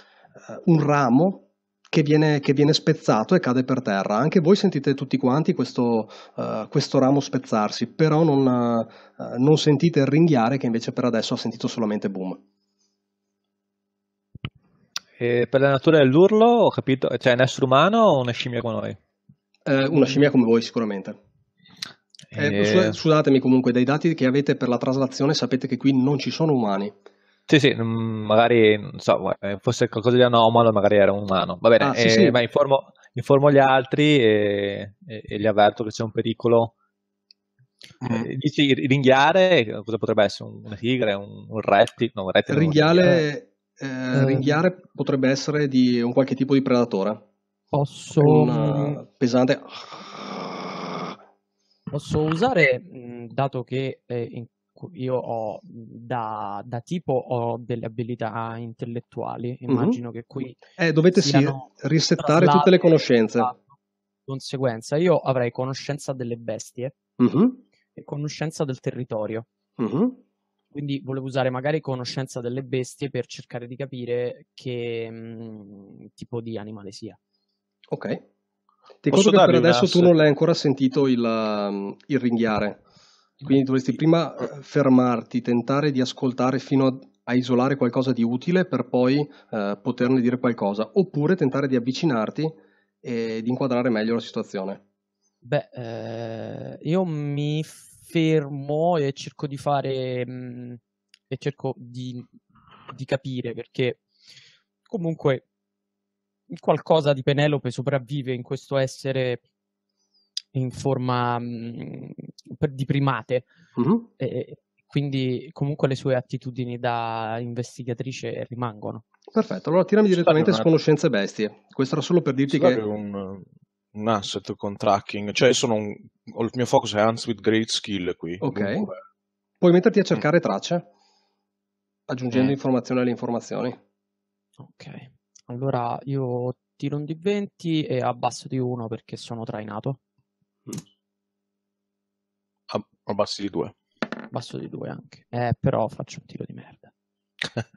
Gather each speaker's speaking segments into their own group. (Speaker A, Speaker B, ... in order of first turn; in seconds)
Speaker A: 0.5-12.4, 19.7-21.2, 22.4-26.9, 31.8-32.4, 42.5-47.2, 48.2-51.1, 59.7-60.0, 60.8-63.5, 67.2-67.6, 69.8-70.2, 77.9-78.2, 79.0-82.8, 83.4-94.8, 113.8-114.1, 119.3-122.8, 128.4-128.9, 129.6-130.9, 132.1-133.8
Speaker B: 15.2-19.0, 22.3-23.0, 27.5-36.7, 38.0-43.2
Speaker C: 38.0-38.3, 79.1-80.1, 120.1-120.7, 122.5-129.0, 142.7-143.7
Speaker D: 44.1-44.6, 47.7-49.0, 51.9-60.6, 61.1-63.6, 64.3-66.9, 68.0-69.5, 70.7-77.2, 95.4-102.3, 102.9-104.0, 104.9-105.5, 106.5-109.4, 110.5-113.5, 114.2-119.0, 134.6-140.0, 144.3-146.9